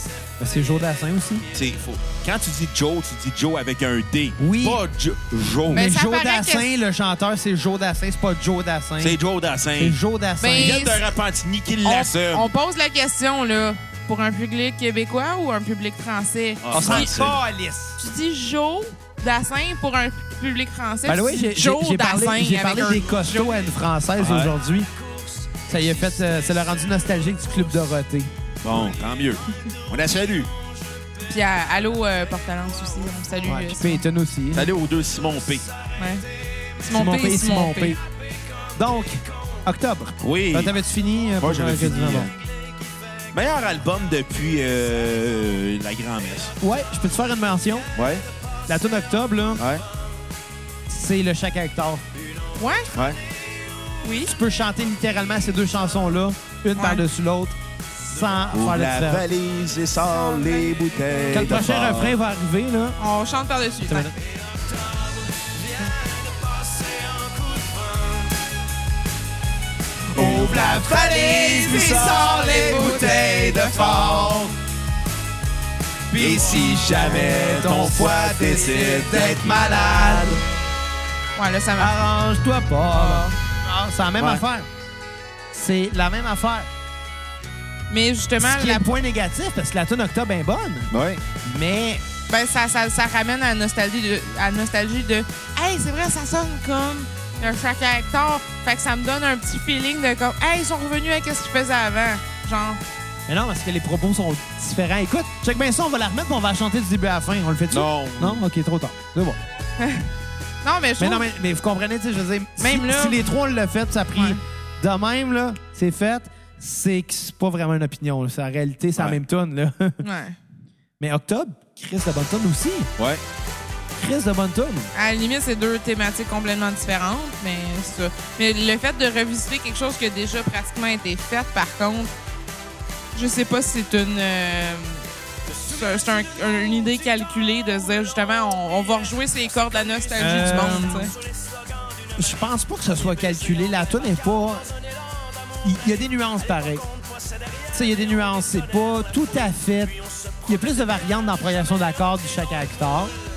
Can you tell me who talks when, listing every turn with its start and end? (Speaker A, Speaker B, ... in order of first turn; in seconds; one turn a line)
Speaker A: 0.4-1.4
Speaker B: 1.5-5.9
Speaker A: 4.4-4.8
Speaker A: 5.7-9.2
Speaker C: 5.7-6.7
Speaker B: 9.0-10.0
Speaker A: 9.8-10.8
Speaker C: 10.4-11.0
Speaker B: 10.6-12.5
Speaker C: 11.8-17.1
Speaker B: 16.6-17.4
Speaker A: 16.7-18.0
Speaker C: 18.0-23.6
Speaker A: 21.1-24.9
Speaker B: 24.2-24.5
Speaker A: 25.7-28.3
Speaker B: 28.6-30.5
Speaker C: 31.2-34.0
Speaker A: 33.5-34.7
Speaker B: 34.5-35.7
Speaker C: 36.0-36.2
Speaker C: 36.8-38.0
Speaker A: 36.9-38.0
Speaker A: 38.8-42.3
Speaker B: 40.2-40.8
Speaker B: 41.4-42.3
Speaker B: 43.3-46.5
Speaker A: 46.6-47.9
Speaker B: 47.9-48.2
Speaker A: 48.7-49.6
Speaker B: 49.6-49.8
Speaker A: 50.9-52.0
Speaker C: 52.5-52.9
Speaker B: 52.9-53.2
Speaker C: 54.0-54.3
Speaker A: 54.2-59.2
Speaker C: 56.8-57.0
Speaker B: 58.5-62.1
Speaker C: 60.2-61.5
Speaker A: 61.3-63.0
Speaker C: 63.0-64.1
Speaker A: 63.9-64.1
Speaker A: 70.1-74.5
Speaker B: 70.1-72.2
Speaker C: 71.0-73.6
Speaker A: 76.1-80.4
Speaker B: 76.1-80.3
Speaker C: 81.3-82.0
Speaker A: 81.8-84.7
Speaker C: 82.9-83.3
Speaker B: 84.2-84.4
Speaker A: 85.5-86.7
Speaker C: 87.9-88.9
Speaker A: 88.4-92.0
Speaker B: 90.9-91.2
Speaker C: 92.3-102.8
Speaker A: 103.3-109.4
Speaker B: 107.7-108.4
Speaker C: 109.8-110.1
Speaker C: 110.6-111.2
Speaker A: 111.0-120.0
Speaker C: 112.6-113.3
Speaker C: 114.1-114.4
Speaker C: 120.0-120.4
Speaker A: 121.0-122.9
Speaker B: 123.0-123.2
Speaker A: 124.0-124.9
Speaker C: 124.9-132.1
Speaker C: 133.1-135.0
Speaker C: 135.7-141.1
Speaker A: 140.2-141.1
Speaker A: 142.2-144.7
Speaker A: 145.6-146.8
Speaker A: 147.7-153.1